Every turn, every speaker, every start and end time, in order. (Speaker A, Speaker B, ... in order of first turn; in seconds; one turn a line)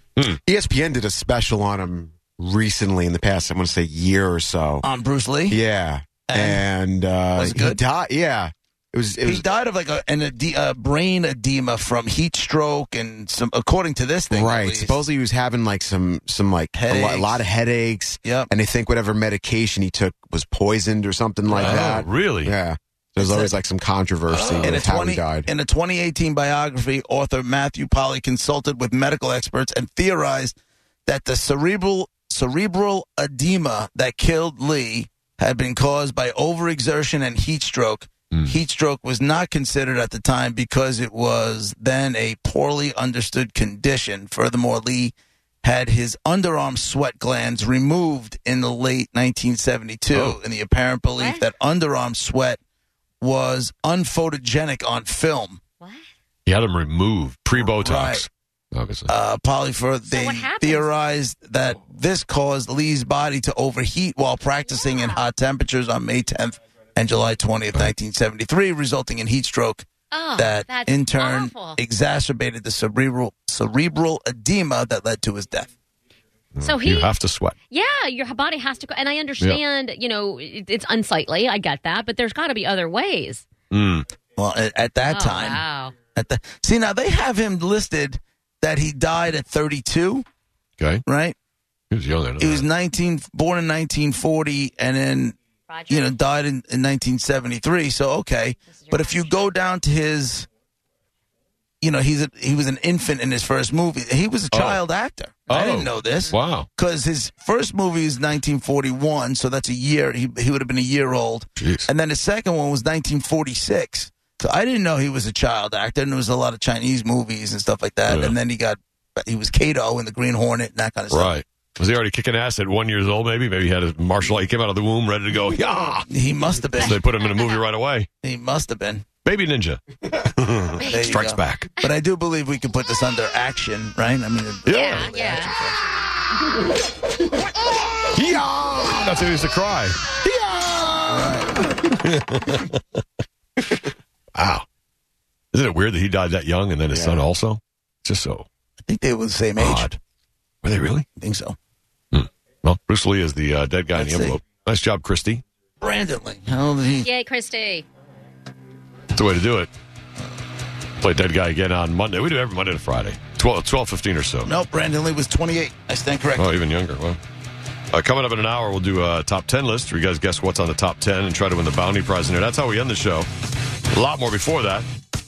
Speaker A: 0.4-4.8
Speaker B: 4.8-5.6
Speaker A: 5.5-9.4
Speaker B: 6.3-6.7
Speaker B: 7.3-7.8
Speaker B: 9.2-15.0
Speaker A: 14.3-25.5
Speaker B: 16.7-17.4
Speaker B: 18.2-18.5
Speaker C: 21.5-22.5
Speaker B: 23.2-23.5
Speaker C: 24.3-24.7
Speaker B: 24.3-30.5
Speaker B: 31.1-52.6
Speaker C: 50.1-50.4
Speaker D: 51.2-51.5
Speaker B: 53.2-55.6
Speaker D: 55.8-56.1
Speaker C: 56.5-59.1
Speaker B: 57.5-58.3
Speaker B: 59.1-69.8
Speaker D: 60.1-60.9
Speaker D: 64.6-65.3
Speaker D: 70.1-71.8
Speaker B: 70.4-75.7
Speaker C: 76.5-77.5
Speaker D: 76.6-77.2
Speaker D: 77.7-83.5
Speaker C: 83.7-84.1
Speaker B: 84.3-90.2
Speaker D: 85.0-86.0
Speaker C: 90.8-91.0
Speaker B: 91.0-91.3
Speaker C: 91.9-92.7
Speaker B: 92.4-95.3
Speaker D: 95.7-96.1
Speaker B: 95.9-100.5
Speaker D: 98.7-99.5
Speaker B: 101.8-121.3
Speaker C: 104.5-104.8
Speaker C: 105.5-106.7
Speaker D: 106.0-106.3
Speaker C: 111.6-111.9
Speaker C: 118.1-118.4
Speaker C: 121.1-126.0
Speaker B: 126.1-127.0
Speaker C: 126.8-128.1
Speaker B: 128.2-129.1
Speaker C: 129.2-131.7
Speaker D: 130.8-131.0
Speaker B: 130.8-135.8
Speaker C: 134.7-135.0
Speaker D: 134.7-135.5
Speaker A: 138.2-139.1
Speaker C: 138.3-140.0
Speaker A: 140.2-141.2
Speaker B: 141.1-141.5
Speaker C: 141.9-142.7
Speaker C: 144.3-144.6
Speaker C: 145.5-148.4
Speaker A: 146.9-147.2
Speaker B: 148.8-149.9
Speaker C: 149.6-150.0
Speaker C: 150.6-151.1
Speaker B: 151.2-151.6
Speaker C: 152.1-155.4
Speaker B: 153.9-154.4
Speaker B: 155.8-157.1
Speaker D: 157.0-157.8
Speaker C: 159.1-159.7
Speaker C: 161.0-164.5
Speaker B: 164.4-166.5
Speaker C: 166.4-167.2
Speaker C: 167.9-173.3
Speaker C: 173.9-174.9